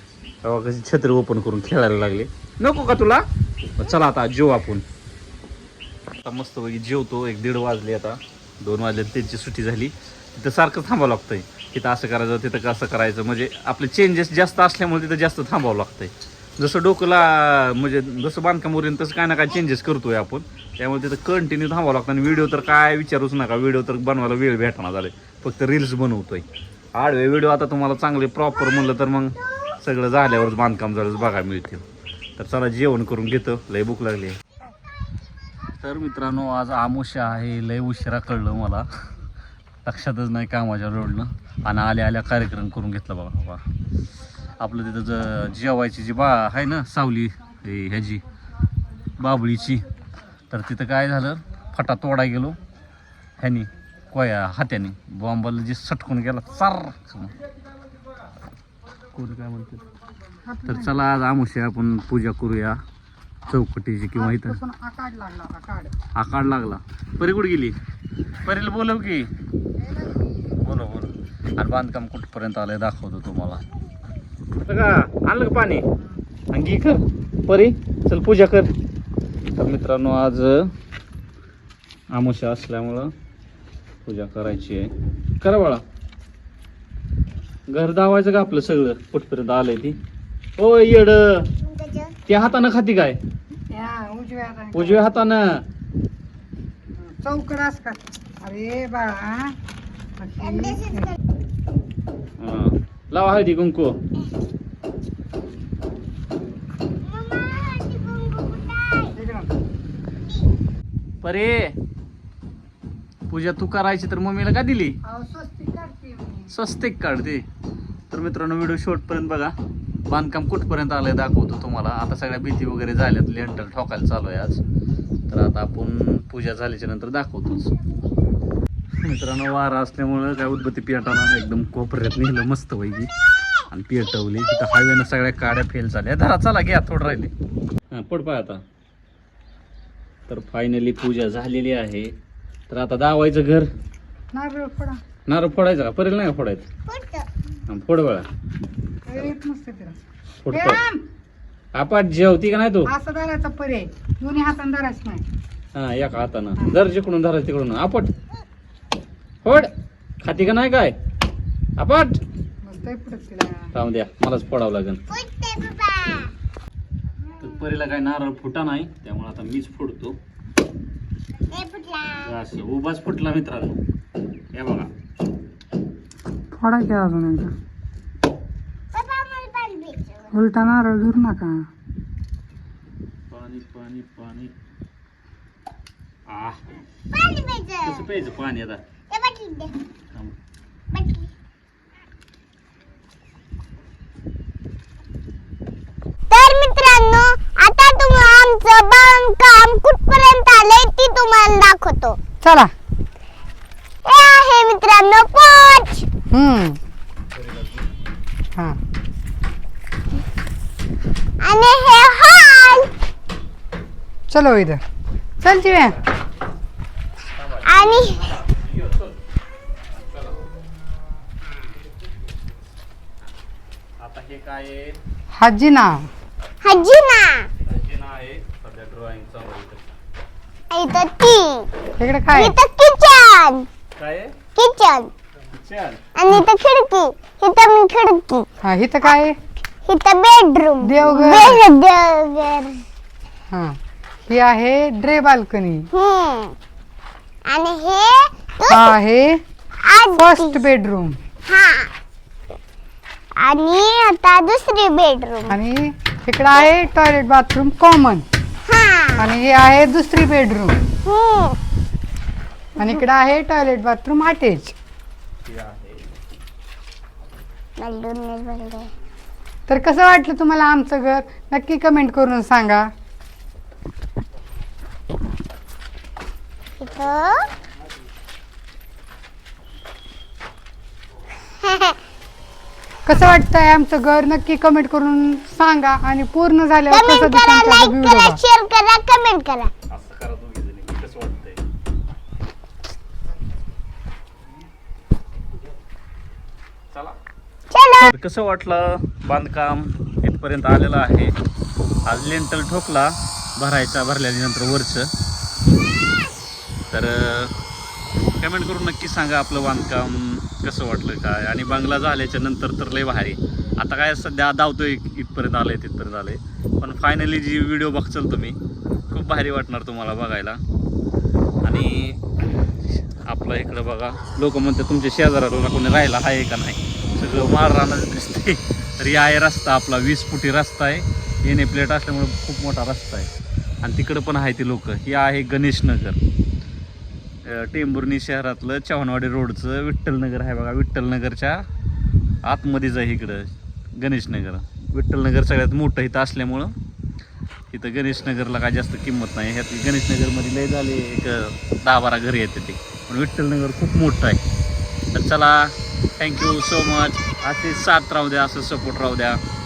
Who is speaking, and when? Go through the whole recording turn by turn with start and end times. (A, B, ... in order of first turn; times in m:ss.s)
0:00.4-0:03.2 A
0:03.7-0:04.8 A
0:06.2-0:31.8 A
0:32.4-0:34.4 A
0:35.7-0:38.9 A
0:39.8-0:43.6 A
0:44.6-0:48.2 A
0:49.2-0:49.8 A
0:50.5-0:52.6 A
0:53.4-0:57.4 A
0:59.1-0:59.8 A
1:00.4-1:00.9 B
1:00.7-1:02.8 A
1:03.5-1:04.6 A
1:04.1-1:05.9 B
1:06.2-1:07.8 A
1:08.4-1:09.3 A
1:10.0-1:10.4 B
1:10.5-1:13.6 A
1:14.7-1:15.8 A
1:16.5-1:18.7 A
1:19.6-1:20.7 A
1:22.1-1:23.1 A
1:24.0-1:24.9 A
1:25.4-1:25.8 A
1:27.7-1:30.0 A
1:30.6-1:31.5 A
1:31.6-1:32.2 C
1:32.3-1:33.2 A
1:33.7-1:35.0 B
1:34.7-1:35.6 A
1:37.0-1:39.5 B
1:40.2-1:41.1 B
1:40.5-1:41.0 C
1:42.4-1:44.0 A
1:47.0-1:49.1 C
1:49.1-1:49.6 B
1:51.2-1:51.8 A
1:53.3-1:55.0 A
1:55.0-1:56.5 B
1:56.5-1:57.4 A
1:58.1-1:59.5 A
2:00.1-2:04.6 A
2:05.3-2:07.7 A
2:09.0-2:13.1 A
2:13.7-2:17.3 A
2:17.9-2:18.6 A
2:20.3-2:22.1 A
2:22.7-2:23.7 A
2:24.3-2:25.0 B
2:25.3-2:26.6 A
2:26.9-2:27.3 C
2:27.7-2:28.2 A
2:29.0-2:31.0 B
2:30.4-2:30.8 A
2:31.7-2:32.9 A
2:32.8-2:35.2 B
2:35.7-2:38.1 A
2:39.4-2:41.0 A
2:41.8-2:42.2 A
2:42.6-2:43.7 B
2:43.7-2:45.0 A
2:45.1-2:46.3 C
2:47.4-2:50.2 A
2:51.5-2:52.3 C
2:52.2-2:53.8 A
2:54.5-2:54.9 A
2:56.6-2:57.5 B
2:58.9-3:00.3 C
3:00.3-3:01.6 B
3:03.3-3:04.5 A
3:06.3-3:06.6 A
3:07.1-3:08.1 C
3:07.8-3:08.8 A
3:09.1-3:09.7 C
3:10.9-3:11.3 C
3:16.3-3:22.2 C
3:22.4-3:22.7 B
3:24.0-3:26.1 C
3:26.3-3:26.8 B
3:27.3-3:27.9 A
3:31.4-3:32.9 C
3:34.3-3:34.8 B
3:35.4-3:36.0 B
3:37.4-3:39.2 A
3:37.6-3:38.3 C
3:40.0-3:40.4 A
3:44.0-3:45.0 A
3:45.3-3:46.1 B
3:46.6-3:47.5 C
3:47.6-3:49.9 A
3:50.7-3:51.7 C
3:52.0-3:52.5 B
3:52.3-3:53.7 C
3:54.0-3:54.4 A
3:54.5-3:55.1 C
3:55.5-3:56.0 A
3:56.1-3:58.4 C
3:58.6-3:59.4 B
3:59.8-4:02.8 C
4:00.8-4:01.6 B
4:03.5-4:05.9 B
4:05.9-4:06.5 C
4:07.5-4:08.9 C
4:08.7-4:09.4 B
4:09.8-4:10.6 C
4:10.2-4:11.2 B
4:11.5-4:11.9 C
4:13.4-4:15.6 C
4:15.5-4:18.2 B
4:18.7-4:19.2 C
4:19.2-4:20.8 B
4:21.0-4:21.6 C
4:22.8-4:24.7 B
4:25.4-4:26.1 A
4:27.8-4:28.9 C
4:29.7-4:32.9 B
4:36.8-4:37.5 C
4:41.6-4:41.9 C
4:43.0-4:48.4 B
4:46.9-4:49.7 C
4:49.9-4:51.6 A
4:57.7-4:58.1 C
4:58.1-5:01.3 A
5:02.0-5:05.1 A
5:06.9-5:07.5 A
5:08.4-5:18.6 A
5:19.1-5:20.6 A
5:21.6-5:22.2 A
5:22.9-5:33.3 A
5:33.8-5:36.2 A
5:37.4-5:41.6 A
5:42.4-5:46.7 A
5:47.7-5:54.4 A
5:55.1-5:59.4 A